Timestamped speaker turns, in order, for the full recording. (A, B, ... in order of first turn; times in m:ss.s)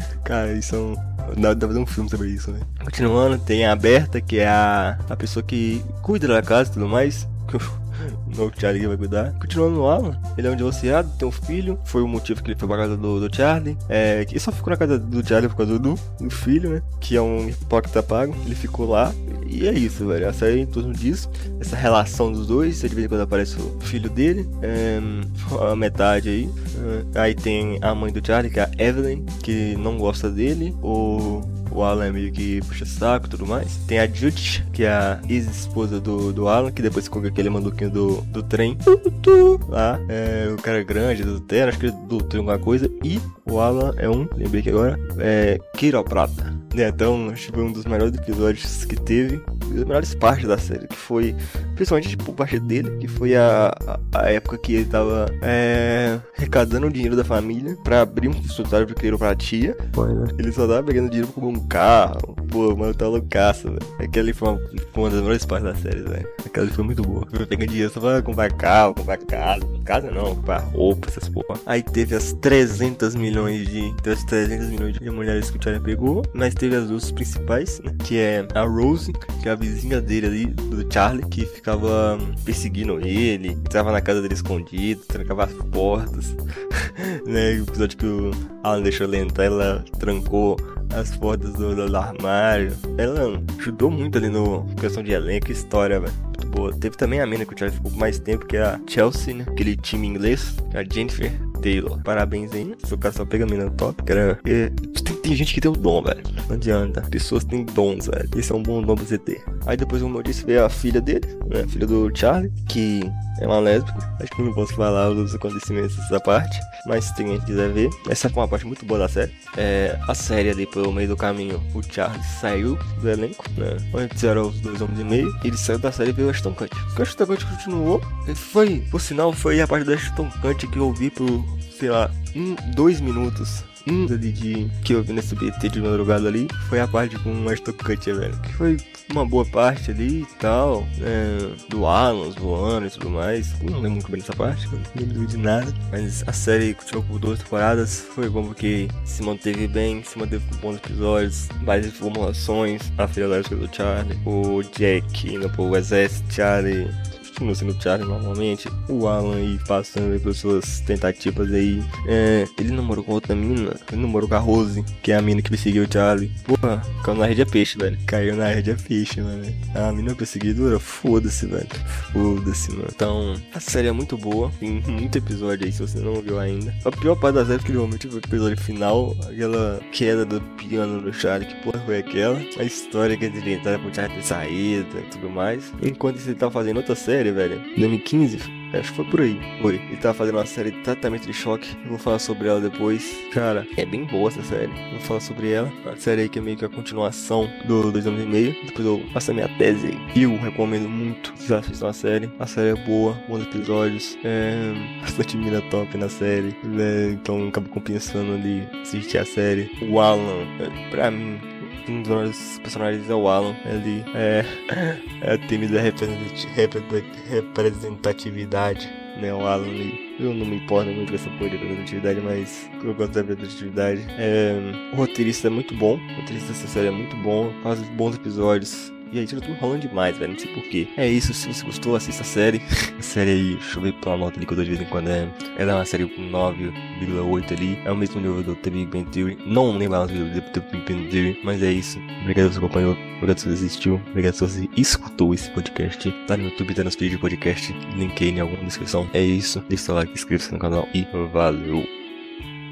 0:00.2-4:11.9 A